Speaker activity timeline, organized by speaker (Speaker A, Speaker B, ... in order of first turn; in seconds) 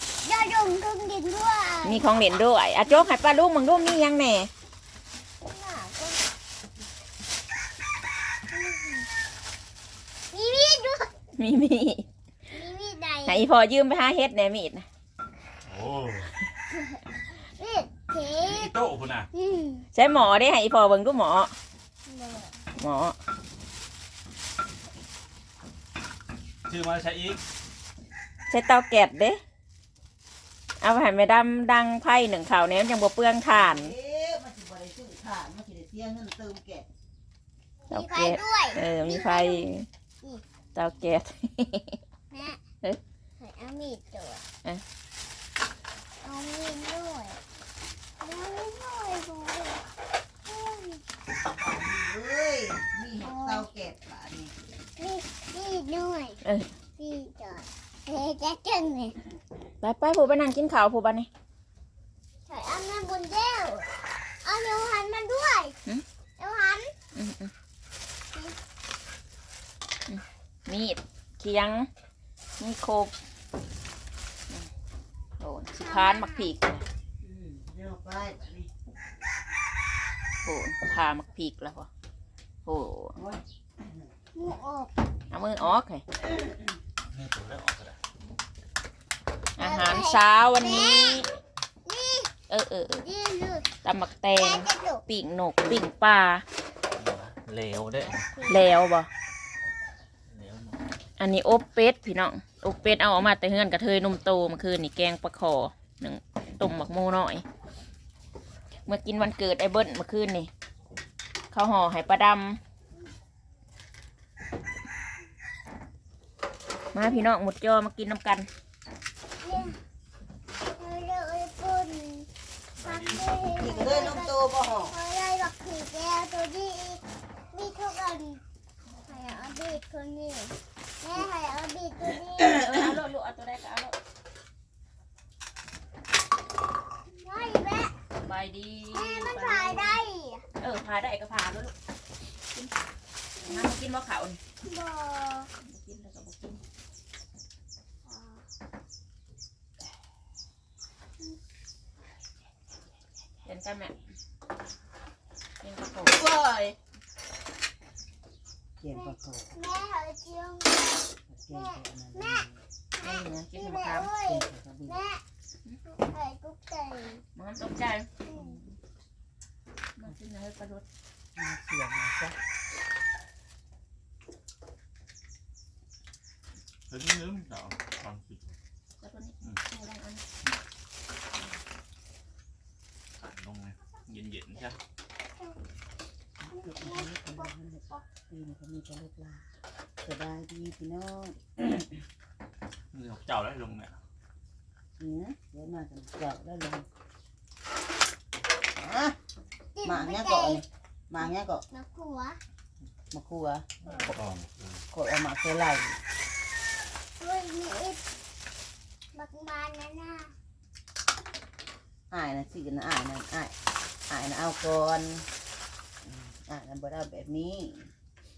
Speaker A: 0.2-2.3, 5.4-6.3, 8.5-9.1, 10.3-11.1, 12.5-13.5, 16.7-18.7, 19.3-19.9, 22.1-22.6, 37.9-39.7, 42.3-42.6, 43.4-44.4, 46.2-47.4, 48.2-49.8, 50.5-51.0, 53.2-53.7, 55.0-56.4, 57.0-59.2, 62.5-63.9, 64.4-65.8, 66.4-67.0, 75.8-76.5, 84.3-85.0, 89.6-91.3, 91.8-92.3, 92.9-93.7, 94.3-95.0, 98.0-98.8, 119.4-119.8, 120.6-122.3, 122.8-128.4, 129.1-132.7, 137.1-137.9, 138.9-140.4, 143.4-143.7, 144.6-145.5, 148.0-148.4, 158.9-162.4, 162.9-165.2, 165.8-167.2, 168.2-168.6, 186.5-188.0, 199.8-200.6, 201.2-202.4, 203.8-204.1, 207.2-208.1, 209.1-210.3
Speaker B: 1.8-4.5, 11.4-12.1, 13.2-14.9, 19.9-21.6, 22.8-23.2, 28.5-29.4, 30.8-33.9, 37.9-39.9, 40.8-42.0, 56.4-56.7, 59.8-61.3, 67.2-67.5, 70.1-71.9, 72.6-73.1, 75.4-76.8, 80.5-81.9, 82.7-83.2, 85.3-86.0, 89.6-91.3, 92.5-93.0, 93.8-96.4, 98.5-99.1, 101.2-107.4, 108.9-110.5, 111.5-112.6, 116.9-118.5, 132.5-133.9, 138.2-140.0, 140.6-141.7, 143.5-144.4, 145.6-146.6, 153.4-153.9, 155.6-156.8, 163.0-164.1, 167.3-168.8, 170.0-170.8, 179.0-180.2
Speaker C: 15.7-16.3, 18.4-19.3, 26.7-27.4, 87.1-88.0, 97.0-98.3, 100.3-100.8, 122.8-123.5, 176.9-178.6, 183.2-184.8, 192.9-194.0, 203.9-204.8
Speaker D: 33.5-36.9, 51.5-54.5, 77.2-78.7, 83.2-84.1, 123.5-125.0, 158.8-159.6, 161.3-162.6, 164.2-165.0, 171.4-172.4, 186.4-189.4, 190.0-192.0, 195.0-196.9, 198.7-199.2, 199.8-201.6, 203.1-203.7, 204.9-206.0, 212.1-213.5, 214.1-215.3, 216.0-217.9